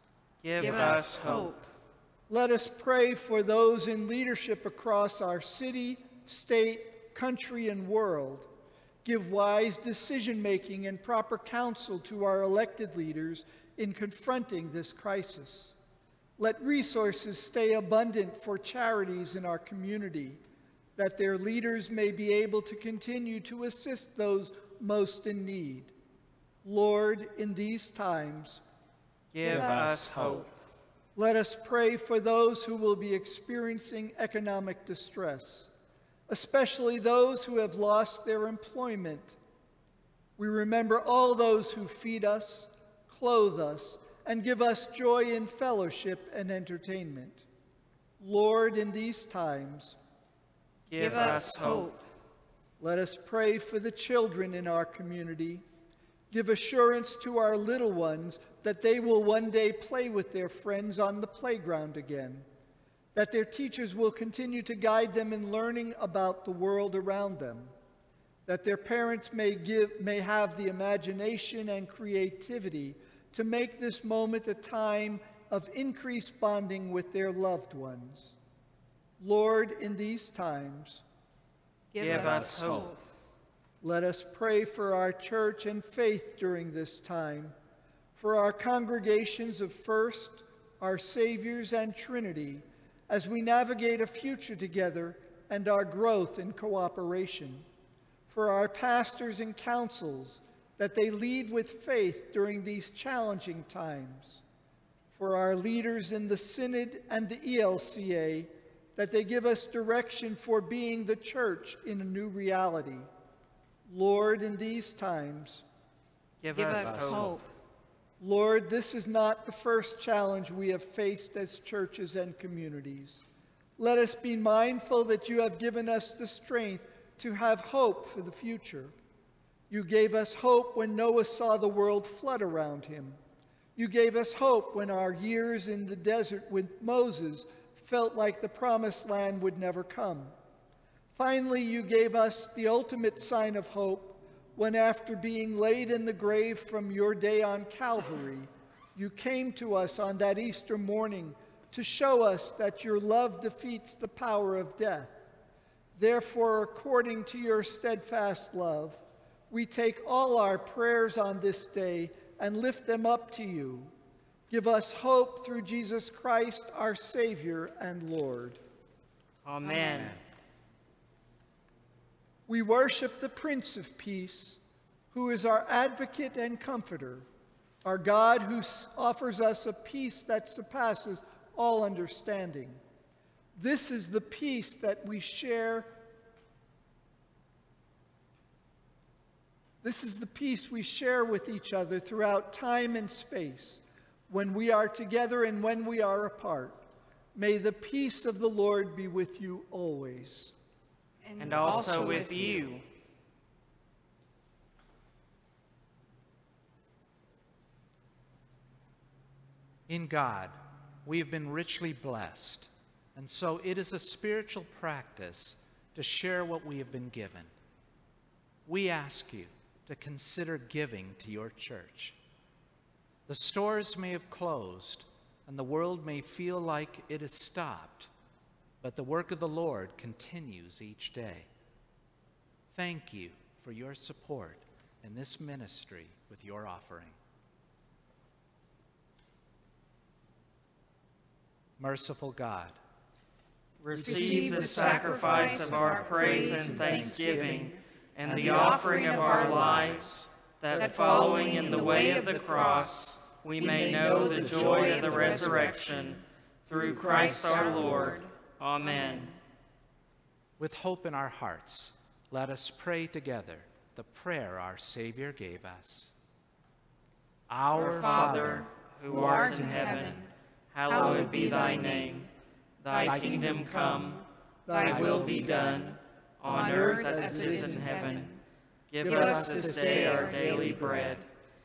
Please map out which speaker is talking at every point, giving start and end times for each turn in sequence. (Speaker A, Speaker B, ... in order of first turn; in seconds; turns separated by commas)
Speaker A: 0.4-1.5, Speaker B: 0.6-1.6, Speaker C: 2.3-8.5, Speaker C: 9.0-15.8, Speaker C: 16.4-20.4, Speaker C: 21.0-25.9, Speaker C: 26.6-28.6, Speaker A: 29.3-30.5, Speaker D: 29.4-30.5, Speaker C: 29.5-30.0, Speaker C: 31.1-35.7, Speaker C: 36.3-39.4, Speaker C: 40.4-47.5, Speaker C: 48.2-50.0, Speaker A: 50.9-51.9, Speaker B: 51.0-52.0, Speaker C: 52.8-55.6, Speaker C: 56.3-62.5, Speaker C: 63.1-67.7, Speaker C: 68.5-78.3, Speaker C: 79.2-81.0, Speaker B: 81.9-83.0, Speaker A: 82.0-82.9, Speaker D: 82.0-82.9, Speaker C: 83.8-87.5, Speaker C: 88.2-97.7, Speaker C: 98.3-104.4, Speaker C: 105.1-113.1, Speaker C: 113.9-115.7, Speaker A: 116.4-117.4, Speaker B: 116.5-117.5, Speaker D: 116.8-117.3, Speaker C: 118.2-123.2, Speaker C: 123.8-128.9, Speaker C: 129.7-133.2, Speaker C: 133.8-140.3, Speaker C: 141.1-155.2, Speaker C: 156.0-163.9, Speaker C: 164.5-168.6, Speaker A: 169.4-170.2, Speaker B: 169.6-170.2, Speaker C: 172.5-174.6, Speaker C: 175.1-177.3, Speaker C: 177.8-182.8, Speaker C: 183.6-186.0, Speaker C: 189.8-200.5, Speaker B: 201.2-202.6, Speaker A: 201.4-202.8, Speaker D: 209.9-217.5, Speaker D: 218.7-222.2, Speaker D: 223.3-228.1, Speaker D: 228.8-231.5, Speaker D: 232.7-237.2, Speaker D: 241.8-242.8, Speaker A: 243.8-259.3, Speaker B: 244.0-249.9, Speaker D: 244.9-247.6, Speaker D: 248.3-250.3, Speaker B: 250.8-253.0, Speaker B: 253.6-259.4, Speaker D: 254.1-255.8, Speaker D: 260.6-266.1, Speaker D: 267.5-268.7, Speaker A: 267.7-272.3, Speaker B: 267.8-270.3, Speaker B: 270.9-272.3, Speaker A: 272.8-274.2, Speaker B: 272.9-278.4, Speaker D: 273.0-273.9, Speaker C: 274.7-275.6, Speaker A: 274.8-278.3, Speaker D: 274.9-275.7, Speaker C: 276.5-278.2, Speaker A: 278.9-281.2, Speaker C: 279.0-281.2, Speaker B: 279.0-281.3, Speaker D: 280.0-280.9